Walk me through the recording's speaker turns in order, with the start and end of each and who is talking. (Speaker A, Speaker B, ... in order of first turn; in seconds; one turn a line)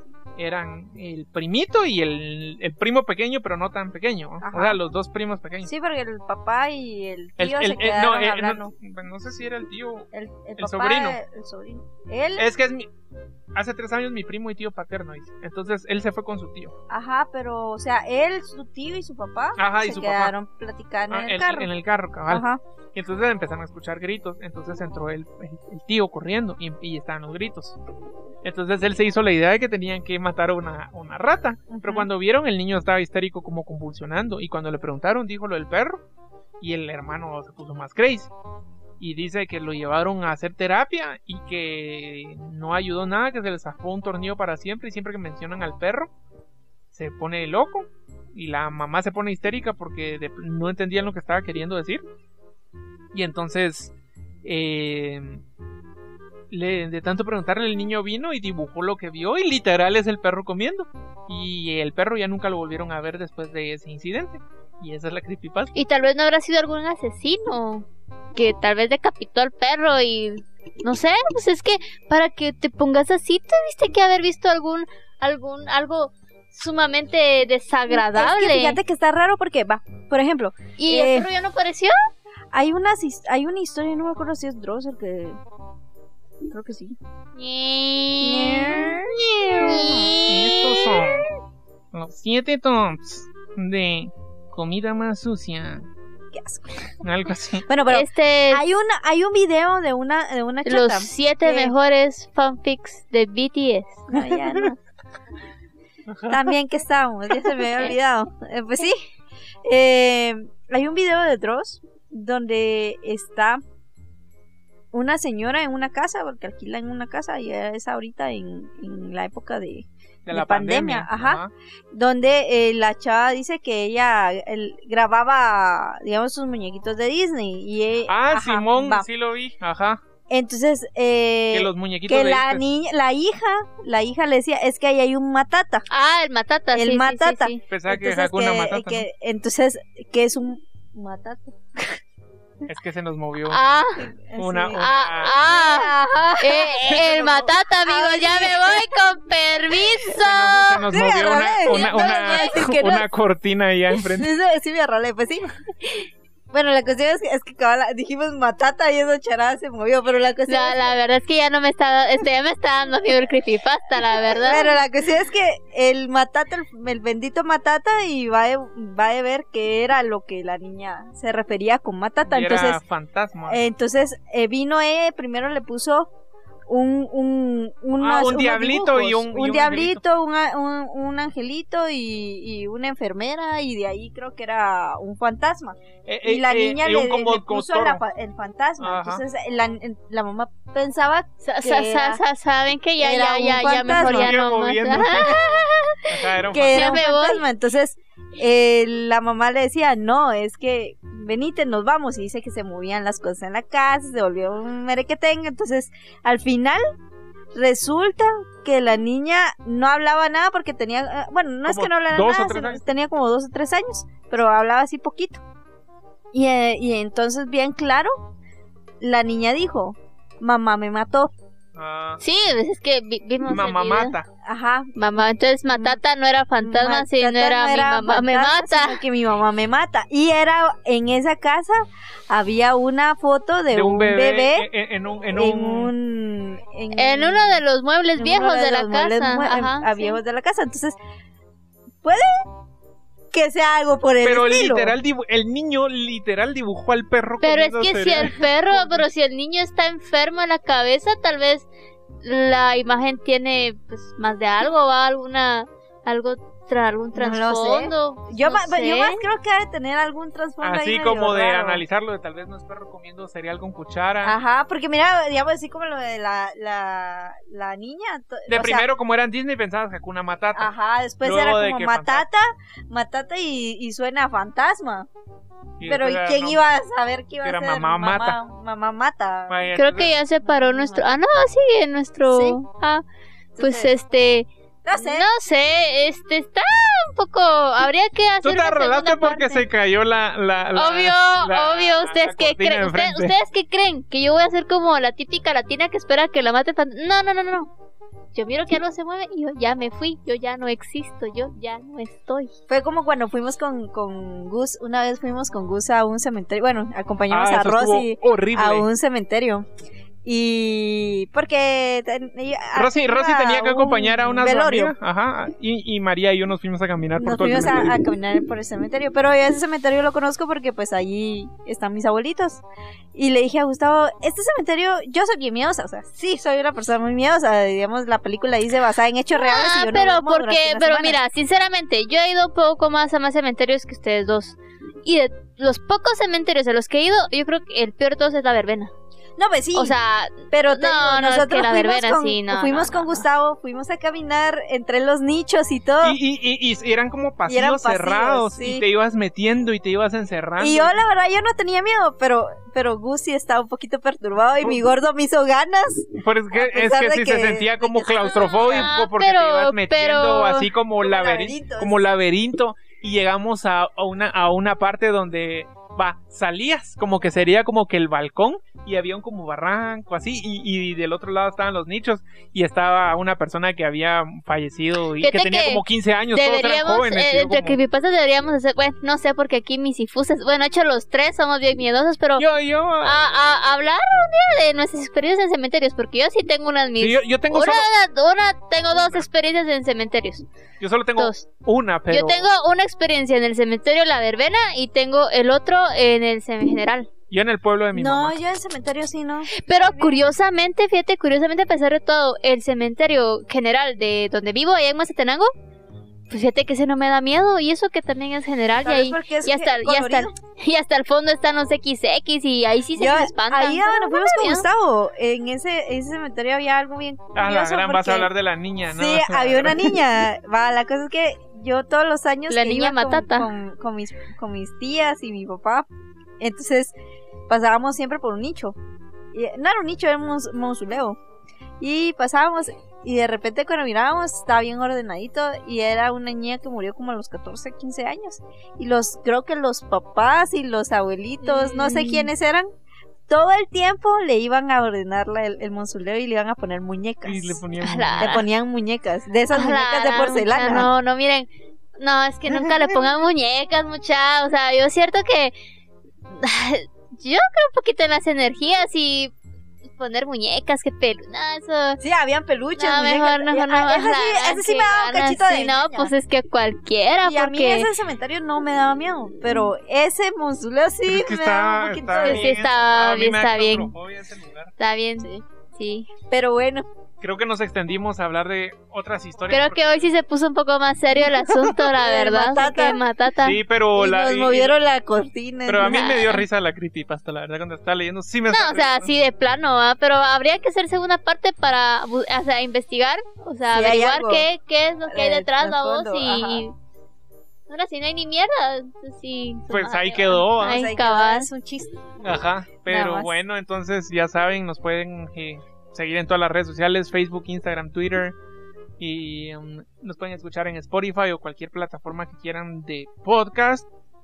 Speaker A: 0.4-5.7
Speaker B: 4.4-4.8
Speaker B: 5.6-8.7
Speaker A: 7.4-11.2
Speaker B: 10.1-12.5
Speaker A: 12.4-12.9
Speaker A: 13.6-16.7
Speaker B: 16.9-21.7
Speaker A: 19.6-20.4
Speaker A: 21.1-27.8
Speaker B: 22.3-22.6
Speaker A: 28.4-36.0
Speaker B: 31.7-32.1
Speaker A: 36.6-38.3
Speaker A: 39.0-46.1
Speaker A: 46.9-52.0
Speaker A: 53.1-55.4
Speaker A: 56.5-65.7
Speaker C: 65.7-78.8
Speaker B: 77.9-81.3
Speaker C: 80.8-81.9
Speaker B: 82.5-85.4
Speaker B: 86.5-87.0
Speaker C: 87.4-89.0
Speaker B: 88.2-90.2
Speaker C: 89.5-91.2
Speaker A: 90.3-91.3
Speaker A: 91.9-95.8
Speaker B: 96.3-96.8
Speaker A: 97.0-97.7
Speaker B: 97.7-101.8
Speaker C: 97.9-98.6
Speaker C: 100.7-104.1
Speaker B: 104.1-104.8
Speaker A: 104.2-104.7
Speaker A: 106.1-106.5
Speaker B: 106.3-109.0
Speaker B: 109.7-113.6
Speaker B: 114.9-129.1
Speaker A: 120.2-121.5
Speaker A: 128.1-130.0
Speaker B: 130.3-135.9
Speaker A: 131.5-132.6
Speaker C: 135.9-137.6
Speaker B: 136.7-141.9
Speaker A: 137.6-139.1
Speaker A: 142.7-143.6
Speaker C: 143.5-144.0
Speaker B: 144.0-144.9
Speaker A: 144.3-145.4
Speaker C: 144.7-150.8
Speaker B: 145.4-149.0
Speaker A: 146.8-147.5
Speaker A: 150.1-154.3
Speaker B: 150.9-153.1
Speaker C: 151.6-153.0
Speaker B: 153.9-155.6
Speaker B: 156.5-160.9
Speaker C: 160.5-164.8
Speaker B: 164.3-172.8
Speaker A: 172.2-173.6
Speaker B: 173.5-176.1
Speaker B: 176.7-192.2
Speaker A: 178.0-180.0
Speaker A: 186.1-188.0
Speaker A: 188.8-189.2
Speaker C: 191.4-196.2
Speaker B: 193.0-194.4
Speaker A: 193.9-195.4
Speaker A: 196.1-196.9
Speaker B: 196.5-206.8
Speaker C: 196.8-197.5
Speaker B: 207.6-215.4
Speaker A: 211.6-212.8
Speaker B: 216.3-218.1
Speaker B: 219.0-221.3
Speaker A: 221.8-222.2
Speaker C: 222.2-224.1
Speaker A: 223.4-224.3
Speaker B: 224.4-226.0
Speaker C: 224.9-229.0
Speaker B: 226.6-234.7
Speaker A: 233.7-235.9
Speaker B: 235.3-237.6
Speaker C: 236.9-240.2
Speaker B: 238.2-241.0
Speaker B: 242.0-242.5
Speaker B: 243.3-245.0
Speaker A: 244.2-249.1
Speaker C: 247.4-251.7
Speaker C: 252.2-259.2
Speaker B: 257.1-261.9
Speaker A: 260.6-264.4
Speaker B: 264.2-268.9
Speaker A: 268.5-270.7
Speaker B: 270.5-275.1
Speaker A: 271.2-272.2
Speaker A: 275.8-276.6
Speaker B: 275.8-279.7
Speaker A: 277.4-278.4
Speaker A: 279.5-280.2
Speaker C: 279.7-283.0
Speaker B: 280.4-281.2
Speaker B: 282.3-282.6
Speaker B: 283.6-283.9
Speaker C: 283.6-289.7
Speaker B: 284.9-285.3
Speaker A: 288.4-293.4
Speaker C: 290.7-297.7
Speaker C: 298.3-302.5
Speaker B: 302.7-309.7
Speaker A: 307.3-308.9
Speaker B: 310.2-315.0
Speaker A: 312.8-318.0
Speaker B: 317.2-322.6
Speaker B: 323.1-331.2
Speaker C: 329.3-338.9
Speaker B: 339.4-340.0
Speaker C: 339.8-343.2
Speaker B: 340.5-346.2
Speaker A: 346.0-351.0
Speaker B: 347.5-348.9
Speaker B: 350.6-358.9
Speaker A: 356.1-377.8
Speaker C: 358.4-360.7
Speaker B: 361.0-362.1
Speaker C: 375.2-382.5
Speaker A: 382.4-383.2
Speaker C: 383.0-390.4
Speaker A: 387.0-387.9
Speaker A: 388.9-389.3
Speaker A: 390.8-392.5
Speaker C: 391.2-391.5
Speaker C: 392.1-397.1
Speaker A: 397.3-398.4
Speaker B: 397.9-400.2
Speaker C: 399.5-405.5
Speaker C: 406.3-414.7
Speaker B: 408.8-410.3
Speaker B: 413.0-418.3
Speaker A: 417.3-420.0
Speaker B: 418.9-425.9
Speaker C: 422.5-423.5
Speaker B: 426.4-426.9
Speaker B: 427.5-428.8
Speaker B: 429.3-431.2
Speaker B: 431.8-442.6
Speaker C: 441.4-442.3
Speaker B: 443.3-447.6
Speaker A: 447.2-448.3
Speaker C: 447.8-448.5
Speaker B: 448.2-450.9
Speaker C: 449.5-455.5
Speaker B: 452.5-453.0
Speaker C: 456.3-459.3
Speaker C: 460.0-462.0
Speaker B: 462.0-466.1
Speaker C: 462.8-467.9
Speaker B: 467.2-472.5
Speaker A: 471.1-474.7
Speaker C: 472.2-473.9
Speaker C: 474.8-476.1
Speaker B: 476.3-476.9
Speaker A: 477.2-480.1
Speaker C: 479.5-483.6
Speaker A: 481.4-481.9
Speaker B: 481.9-483.0
Speaker A: 483.4-484.8
Speaker B: 483.9-486.2
Speaker A: 485.7-489.1
Speaker C: 485.8-486.4
Speaker C: 488.5-496.7
Speaker B: 493.7-494.5
Speaker B: 495.1-496.6
Speaker C: 497.7-501.5
Speaker A: 499.7-500.8
Speaker B: 500.6-502.2
Speaker A: 502.2-508.4
Speaker B: 502.9-503.4
Speaker A: 509.0-513.9